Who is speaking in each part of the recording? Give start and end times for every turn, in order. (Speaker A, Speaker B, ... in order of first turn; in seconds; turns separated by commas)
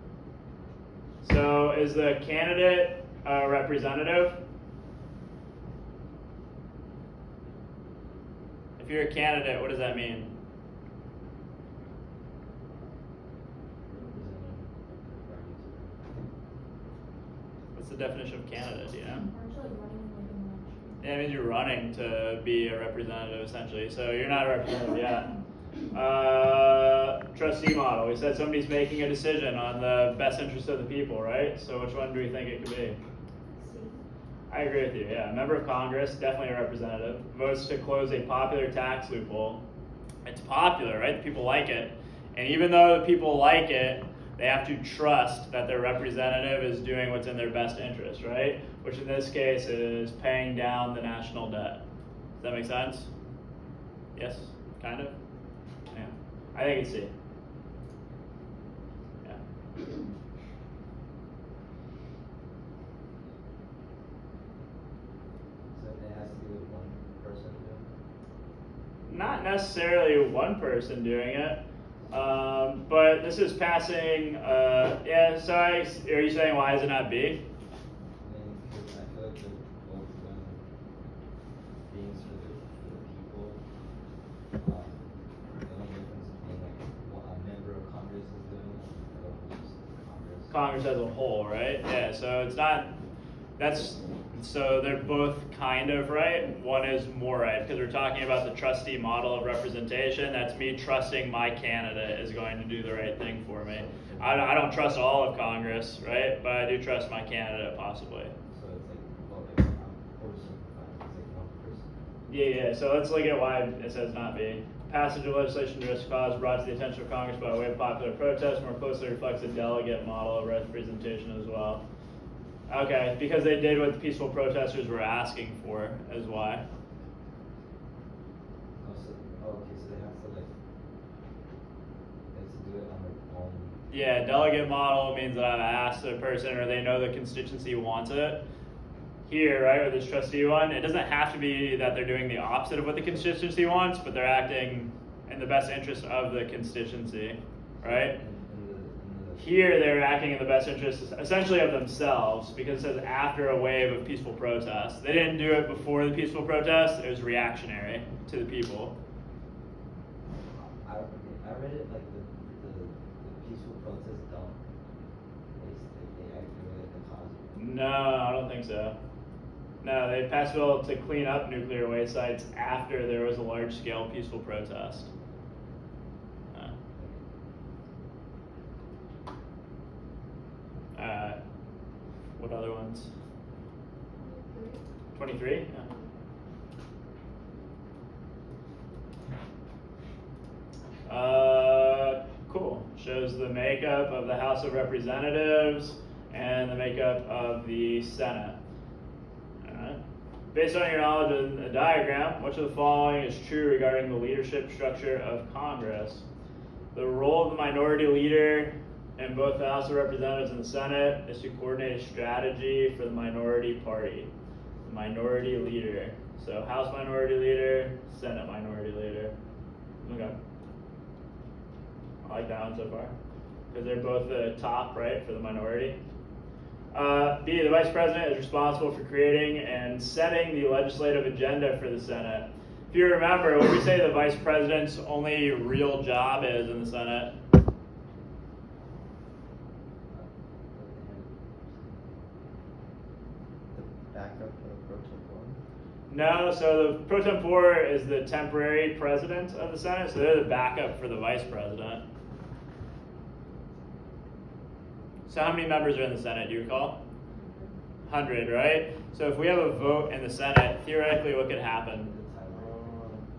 Speaker A: 1.2-4.4, Speaker A: 8.8-10.3, Speaker B: 13.9-16.1, Speaker A: 17.7-19.2, Speaker C: 19.2-21.0, Speaker A: 21.0-25.3, Speaker A: 25.9-33.0, Speaker C: 33.6-34.0, Speaker A: 34.5-39.6, Speaker A: 40.2-51.8, Speaker A: 52.4-53.1, Speaker A: 54.1-55.1, Speaker A: 55.9-57.1, Speaker B: 65.7-67.9, Speaker A: 69.1-77.4, Speaker B: 78.2-80.6, Speaker B: 81.9-83.6, Speaker B: 84.6-90.5, Speaker A: 90.5-92.9, Speaker A: 93.6-108.3, Speaker B: 103.7-104.6, Speaker B: 108.5-111.9, Speaker A: 112.3-121.8, Speaker A: 122.7-126.6, Speaker B: 128.8-130.5, Speaker B: 132.3-133.8, Speaker A: 133.9-138.4, Speaker A: 139.3-148.2, Speaker B: 147.8-149.7, Speaker A: 149.4-158.9, Speaker B: 160.8-164.6, Speaker B: 165.6-167.6, Speaker A: 167.6-168.9, Speaker A: 169.8-175.1, Speaker B: 176.9-177.2, Speaker A: 180.9-181.4, Speaker A: 182.4-183.1, Speaker C: 184.2-184.8, Speaker A: 185.1-185.8, Speaker A: 191.1-198.6, Speaker A: 199.6-200.0, Speaker A: 200.5-206.2, Speaker A: 206.9-214.3, Speaker A: 214.8-219.3, Speaker A: 220.0-220.3, Speaker A: 222.2-223.1, Speaker A: 223.7-226.0, Speaker A: 226.9-237.3, Speaker B: 240.1-242.5, Speaker D: 243.7-245.6, Speaker A: 246.1-252.0, Speaker A: 255.3-257.0, Speaker C: 257.3-257.7, Speaker A: 258.1-262.1, Speaker B: 261.9-263.1, Speaker D: 262.5-263.2